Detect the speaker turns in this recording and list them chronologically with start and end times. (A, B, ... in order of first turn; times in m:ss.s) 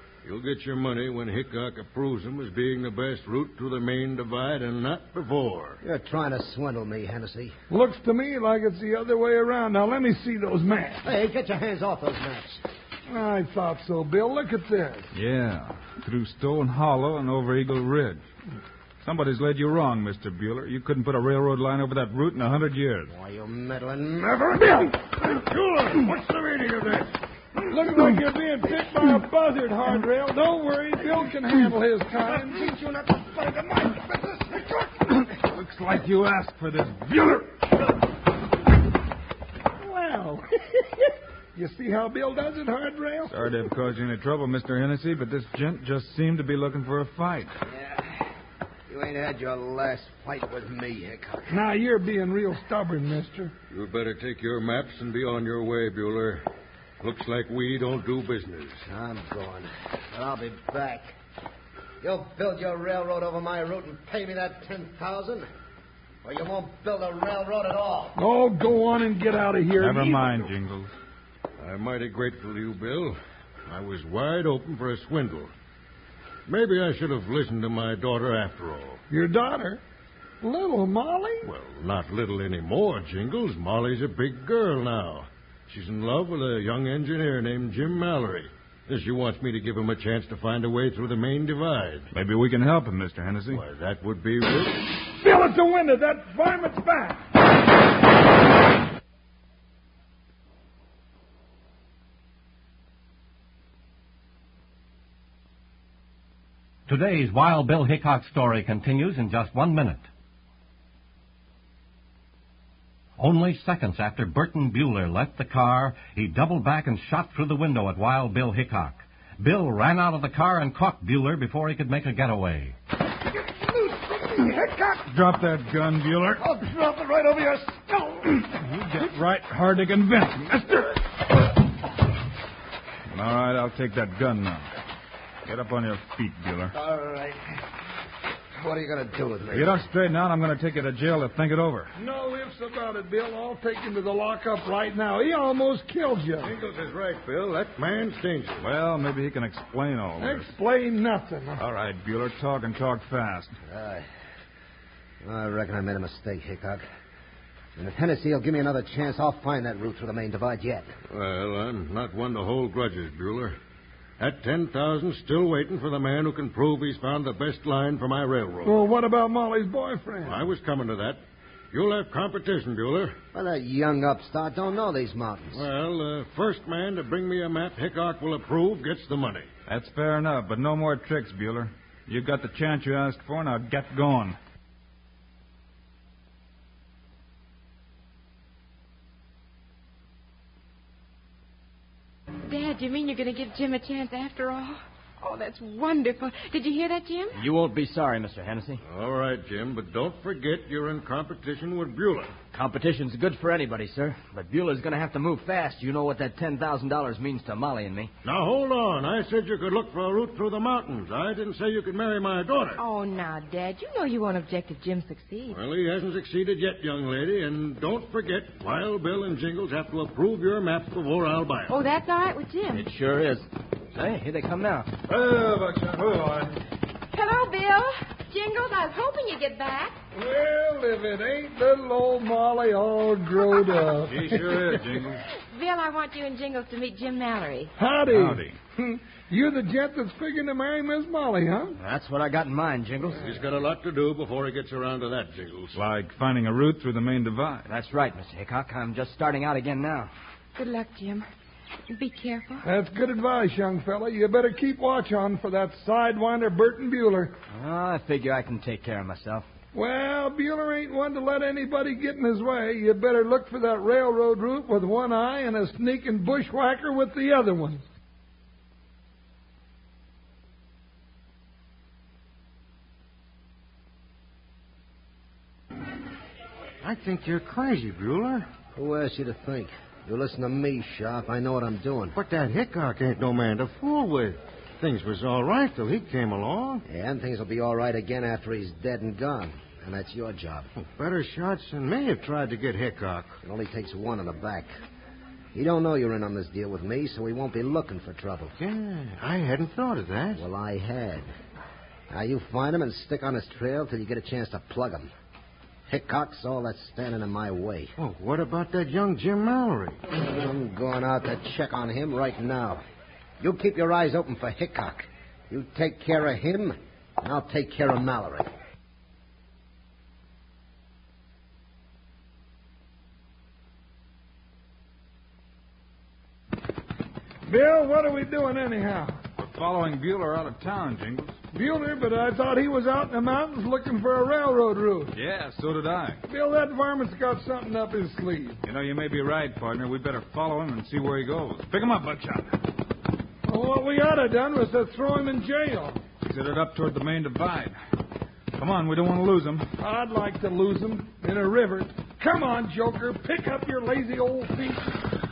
0:00.2-0:05.8 A
0:05.8-0:07.6 B
0:07.7-0:11.0 C
0:11.0-0:12.6 B
0:13.1-0:15.1 C
0:15.1-0:18.2 D
0:19.0-0:23.1 D
0:23.1-0:27.0 B
0:27.7-0:32.7 C
0:32.2-0:35.0 B
0:35.2-0:37.5 D
0:39.8-0:40.9 C
0:41.6-0:43.5 C
0:43.3-0:47.5 D
0:48.9-0:51.6 B
0:51.5-0:53.5 C
0:53.7-0:56.4 A
0:57.0-0:58.8 A
0:58.9-1:01.1 B
1:02.0-1:05.5 B
1:06.2-1:08.2 B
1:08.2-1:10.5 C
1:09.8-1:10.9 D
1:11.6-1:13.2 A
1:13.7-1:15.5 A
1:16.5-1:19.0 A
1:19.1-1:19.8 C
1:20.4-1:21.5 C
1:21.4-1:32.1 A
1:32.1-1:33.6 D
1:33.5-1:34.9 A
1:35.0-1:37.2 C
1:46.9-1:50.0 E
1:53.2-2:02.8 E
2:03.4-2:05.0 B
2:05.0-2:06.4 D
2:06.4-2:08.4 B
2:08.7-2:10.8 D
2:13.1-2:14.7 D
2:15.5-2:16.7 D
2:16.7-2:17.4 B
2:18.6-2:19.8 B
2:19.5-2:21.9 D
2:22.0-2:26.5 C
2:26.4-2:28.7 A
2:28.6-2:30.5 D
2:30.2-2:31.6 C
2:31.6-2:33.5 D
2:33.7-2:34.1 B
2:35.2-2:36.8 B
2:37.8-2:40.9 B
2:41.1-2:43.6 A
2:44.2-2:48.8 A
2:48.6-2:50.5 C
2:50.2-2:51.2 A
2:51.7-2:53.2 A
2:53.3-2:55.7 B
2:55.5-2:59.5 A
2:59.7-3:04.4 D
3:12.5-3:17.5 F
3:17.4-3:18.8 G
3:18.8-3:22.4 A
3:22.5-3:28.1 G
3:28.2-3:32.8 A
3:32.8-3:35.6 F
3:35.5-3:41.8 A
3:41.7-3:42.9 F
3:42.7-3:44.9 G
3:45.1-3:46.6 D
3:47.1-3:50.0 F
3:50.2-3:55.0 C
3:54.1-3:55.2 D
3:55.5-3:57.7 F
3:57.8-4:01.8 C
3:58.1-3:58.6 D
4:01.8-4:03.2 G
4:03.2-4:05.8 A
4:05.8-4:07.7 D
4:07.7-4:10.1 G
4:10.6-4:11.3 F
4:11.9-4:12.6 F
4:12.6-4:17.3 C
4:17.5-4:19.5 G
4:19.7-4:27.8 C
4:36.8-4:38.5 A
4:38.8-4:42.2 B
4:42.1-4:46.8 A
4:46.9-4:50.7 B
4:50.8-4:53.4 A
4:53.4-4:54.7 B
4:55.5-4:58.6 B
4:58.6-5:00.4 A
5:00.3-5:01.3 B
5:02.1-5:05.1 B
5:05.9-5:07.9 B
5:08.0-5:10.0 A
5:10.2-5:12.8 B
5:13.4-5:18.5 B
5:27.5-5:29.2 C
5:29.4-5:31.3 D
5:31.5-5:35.1 C
5:35.1-5:36.2 D
5:36.3-5:38.6 C
5:38.6-5:42.5 D
5:43.5-5:46.0 C
5:46.2-5:47.8 D
5:48.5-5:49.7 D
5:49.8-5:55.0 C